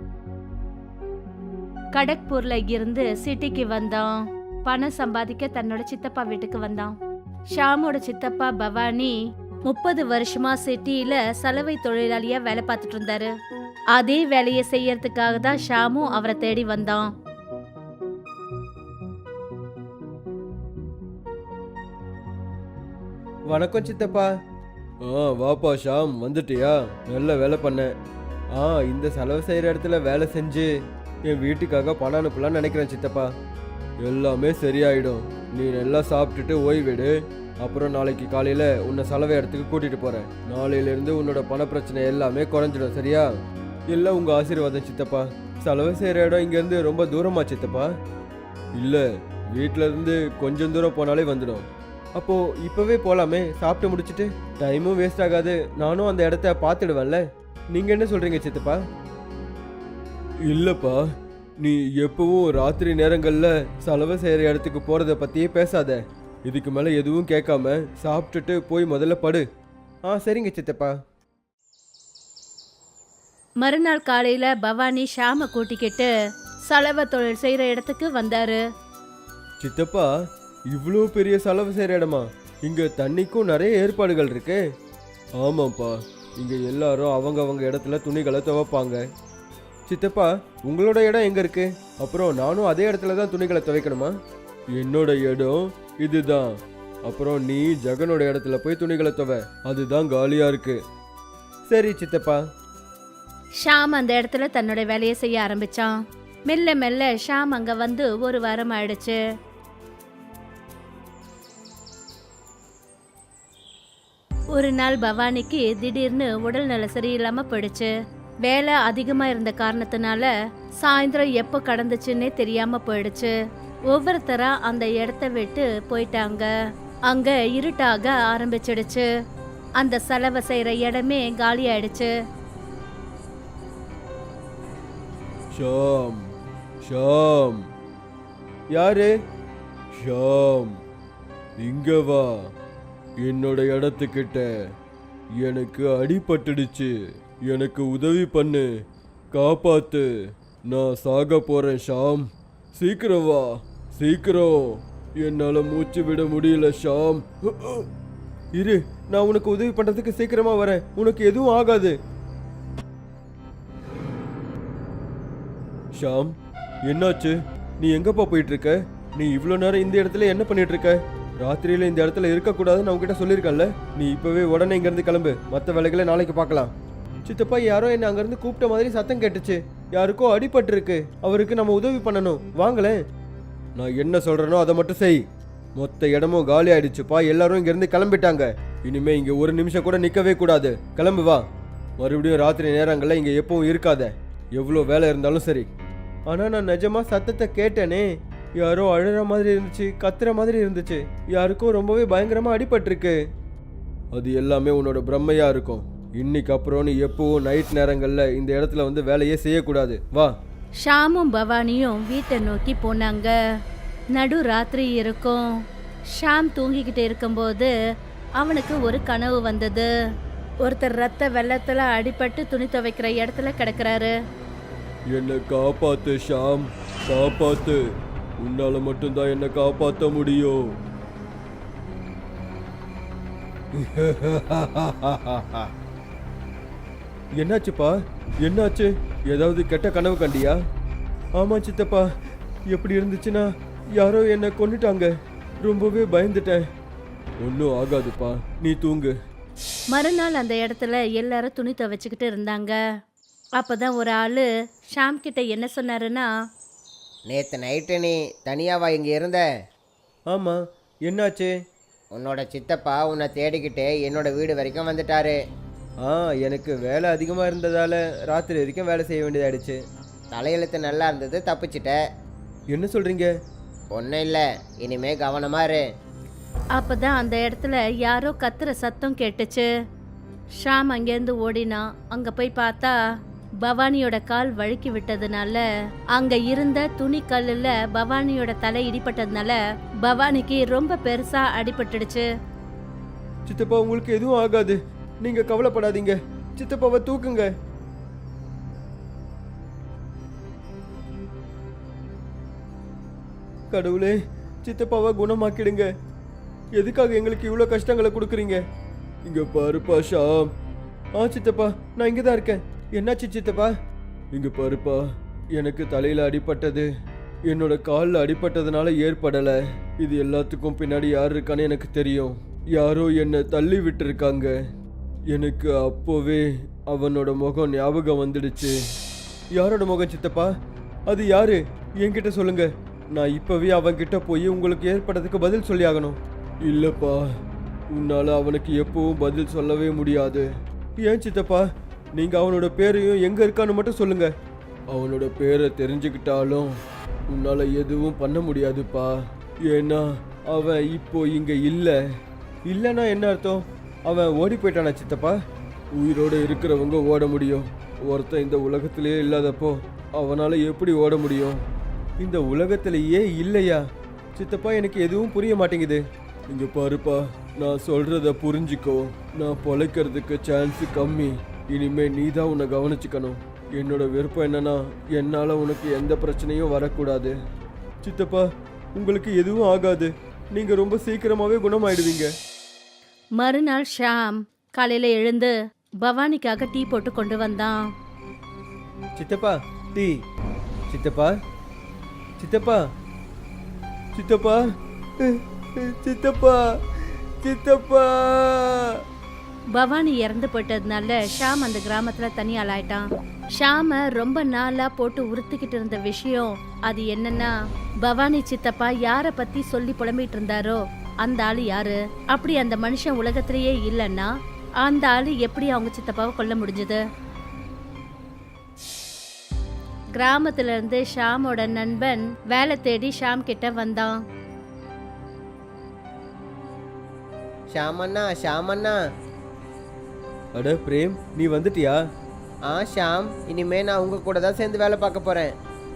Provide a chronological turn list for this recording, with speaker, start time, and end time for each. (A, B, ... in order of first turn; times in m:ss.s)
0:01.9-0:06.9 A
0:07.5-0:13.3 A
0:13.9-0:17.1 A
0:23.5-0:24.3 B
0:25.0-0:27.9 B
0:28.5-0:30.7 B
0:31.3-0:33.3 B
0:34.0-0:43.3 B
0:43.9-0:47.9 B
0:48.8-0:58.8 B
1:00.4-1:01.0 B
1:01.6-1:09.4 B
1:10.1-1:10.9 B
1:13.6-1:16.1 A
1:16.7-1:18.6 A
1:19.6-1:20.1 B
1:20.7-1:24.6 B
1:25.4-1:29.0 B
1:29.9-1:34.1 B
1:34.8-1:36.5 B
1:37.0-1:40.8 B
1:41.7-1:42.4 B
1:43.6-1:45.9 A
1:46.5-1:49.2 A
1:54.5-1:57.9 A
1:58.4-2:03.3 A
2:03.9-2:06.5 A
2:07.1-2:09.1 A
2:09.8-2:12.1 A
2:15.5-2:16.2 B
2:16.8-2:17.6 B
2:18.7-2:19.1 B
2:20.0-2:20.7 B
2:21.6-2:22.3 B
2:23.2-2:24.5 B
2:25.4-2:26.9 B
2:27.4-2:28.7 B
2:29.3-2:30.1 B
2:30.7-2:37.9 B
2:38.5-2:42.0 B
2:46.0-2:56.7 B
2:57.2-3:03.0 B
3:03.8-3:05.2 B
3:05.8-3:11.4 B
3:12.0-3:15.7 B
3:16.3-3:23.2 B
3:24.1-3:30.3 B
3:30.8-3:33.3 A
3:34.1-3:35.5 A
3:36.1-3:37.7 A
3:38.4-3:39.9 A
3:40.6-3:44.1 A
3:45.1-3:47.8 B
3:48.4-3:50.6 B
3:53.7-3:55.7 B
3:57.4-4:00.6 B
4:01.4-4:02.0 B
4:02.7-4:06.6 B
4:07.4-4:09.1 B
4:09.9-4:12.8 A
4:13.6-4:16.3 A
4:17.3-4:19.4 C
4:20.3-4:21.5 B
4:22.1-4:25.4 C
4:26.0-4:29.8 B
4:30.3-4:32.0 C
4:32.7-4:33.3 B
4:33.9-4:35.8 C
4:36.7-4:39.7 A
4:40.6-4:42.9 A
4:43.6-4:45.6 A
4:46.1-4:52.3 A
4:53.4-4:57.5 B
5:03.7-5:05.9 B
5:06.7-5:08.6 B
5:09.2-5:10.5 B
5:11.2-5:13.7 B
5:14.3-5:15.0 B
5:15.5-5:16.9 B
5:17.5-5:24.6 B
5:25.3-5:28.8 B
5:29.5-5:30.5 B
5:31.1-5:37.2 B
5:37.9-5:40.5 B
5:41.0-5:44.3 B
5:44.9-5:46.7 B
5:47.3-5:49.1 B
5:49.7-5:52.0 B
5:52.7-5:55.3 B
5:55.9-6:01.6 B
6:02.2-6:03.8 B
6:04.3-6:17.3 B
6:18.0-6:18.4 B
6:19.0-6:22.3 B
6:23.4-6:27.8 A
6:29.2-6:30.2 B
6:30.9-6:31.3 B
6:32.4-6:32.8 B
6:34.1-6:34.6 B
6:35.2-6:39.0 B
6:39.7-6:43.0 A
6:43.6-6:54.3 A
6:54.8-6:57.0 A
7:00.2-7:04.2 A
7:07.7-7:09.0 C
7:10.5-7:12.0 B
7:12.7-7:15.5 C